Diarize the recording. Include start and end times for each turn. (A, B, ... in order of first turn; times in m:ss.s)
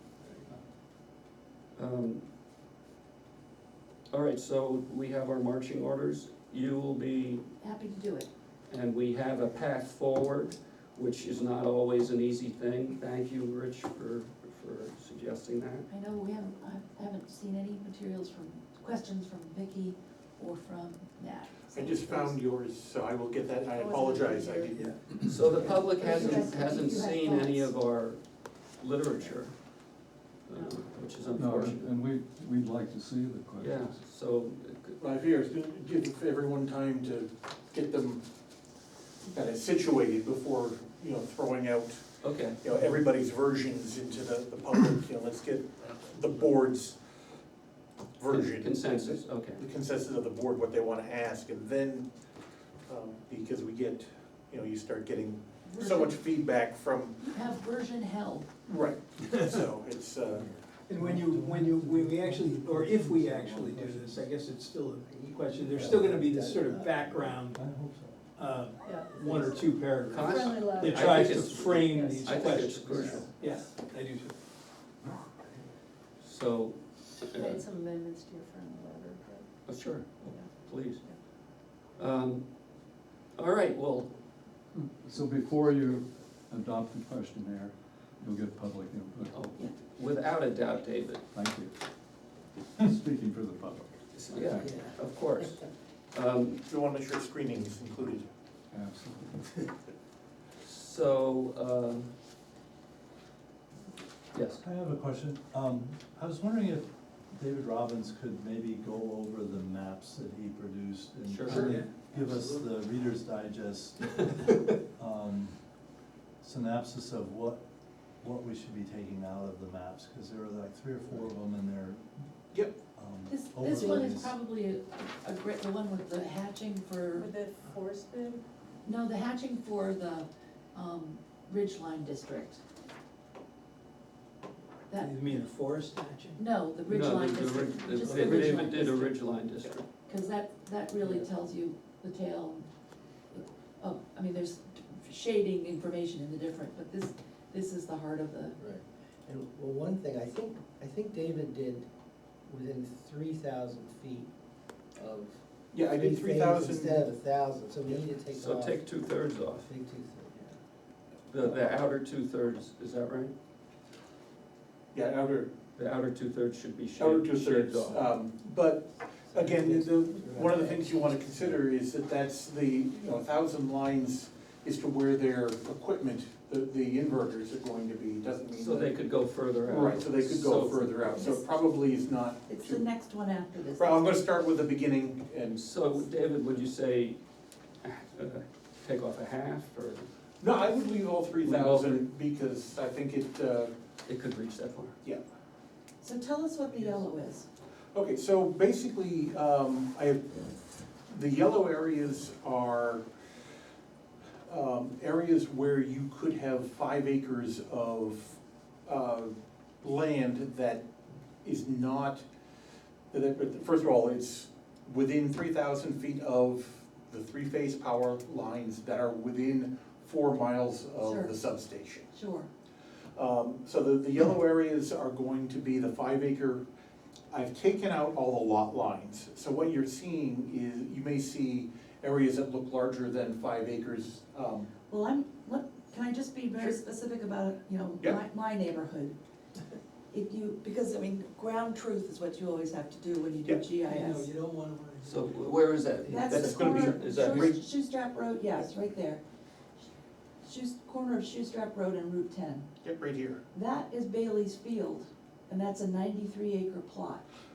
0:01.8-0:02.2 A
0:04.1-0:07.4 A
0:07.6-0:08.3 B
0:08.7-0:15.9 A
0:15.9-0:22.3 B
0:21.7-0:25.7 C
0:23.7-0:24.7 D
0:24.7-0:25.0 E
0:25.2-0:29.8 A
0:25.6-0:27.7 B
0:30.4-0:31.9 A
0:31.4-0:33.9 F
0:31.4-0:32.5 G
0:33.4-0:33.7 G
0:33.6-0:35.0 A
0:35.0-0:38.2 C
0:39.3-0:47.0 C
0:42.2-0:42.6 A
0:48.2-0:52.1 C
0:48.3-0:49.6 A
0:52.9-0:57.3 C
0:55.7-0:56.2 B
0:57.3-0:58.5 B
0:58.6-1:00.5 C
1:00.3-1:00.6 H
1:00.8-1:07.6 E
1:01.2-1:04.3 H
1:05.0-1:07.3 H
1:05.8-1:06.2 G
1:07.5-1:08.2 G
1:08.4-1:14.3 E
1:08.8-1:09.4 D
1:09.2-1:09.4 H
1:10.1-1:13.3 A
1:10.2-1:13.3 D
1:16.2-1:17.6 A
1:17.3-1:19.5 D
1:19.7-1:21.0 A
1:20.2-1:21.2 D
1:22.0-1:22.6 A
1:23.3-1:24.1 A
1:24.8-1:29.3 F
1:25.1-1:25.5 G
1:29.3-1:31.2 A
1:31.3-1:31.7 F
1:32.8-1:33.4 G
1:32.9-1:33.9 F
1:34.2-1:36.6 A
1:34.4-1:34.6 F
1:34.6-1:34.9 H
1:36.7-1:38.3 C
1:38.7-1:39.4 F
1:40.6-1:42.1 A
1:44.3-1:44.6 A
1:44.6-1:55.6 G
1:51.2-1:51.8 A
1:51.5-1:52.6 E
1:56.4-1:57.6 G
1:58.2-2:02.1 G
2:02.5-2:02.8 C
2:03.0-2:04.4 G
2:03.3-2:07.3 B
2:07.1-2:08.4 D
2:08.8-2:12.6 B
2:14.9-2:15.2 B
2:15.0-2:16.4 E
2:16.4-2:19.2 B
2:16.9-2:19.8 A
2:18.1-2:18.4 E
2:20.1-2:22.7 B
2:23.3-2:28.6 B
2:28.6-2:31.9 H
2:32.4-2:34.3 H
2:35.0-2:39.0 H
2:35.7-2:37.1 C
2:38.3-2:39.7 A
2:39.6-2:40.5 H
2:41.3-2:43.3 A
2:44.9-2:45.5 C
2:45.8-2:48.0 A
2:47.0-2:59.0 C
2:49.3-2:50.8 H
2:58.5-3:01.3 A
2:59.6-3:02.9 C
3:01.2-3:01.5 B
3:02.5-3:04.2 B
3:03.8-3:05.6 C
3:05.6-3:07.2 A
3:07.8-3:10.1 A
3:10.4-3:13.7 C
3:11.4-3:12.1 A
3:14.1-3:14.9 A
3:16.0-3:17.5 B
3:17.9-3:20.5 C
3:21.1-3:23.1 C
3:24.5-3:30.9 C
3:31.4-3:32.2 C
3:33.1-3:42.1 C
3:41.0-3:41.3 B
3:42.1-3:42.5 B
3:43.2-3:46.6 C
3:47.3-3:54.7 C
3:54.9-3:59.2 B
4:00.1-4:04.3 B
4:03.8-4:05.5 H
4:05.0-4:07.5 A
4:06.0-4:09.2 B
4:06.3-4:07.6 C
4:10.4-4:12.7 B
4:12.8-4:13.4 C
4:13.5-4:17.2 B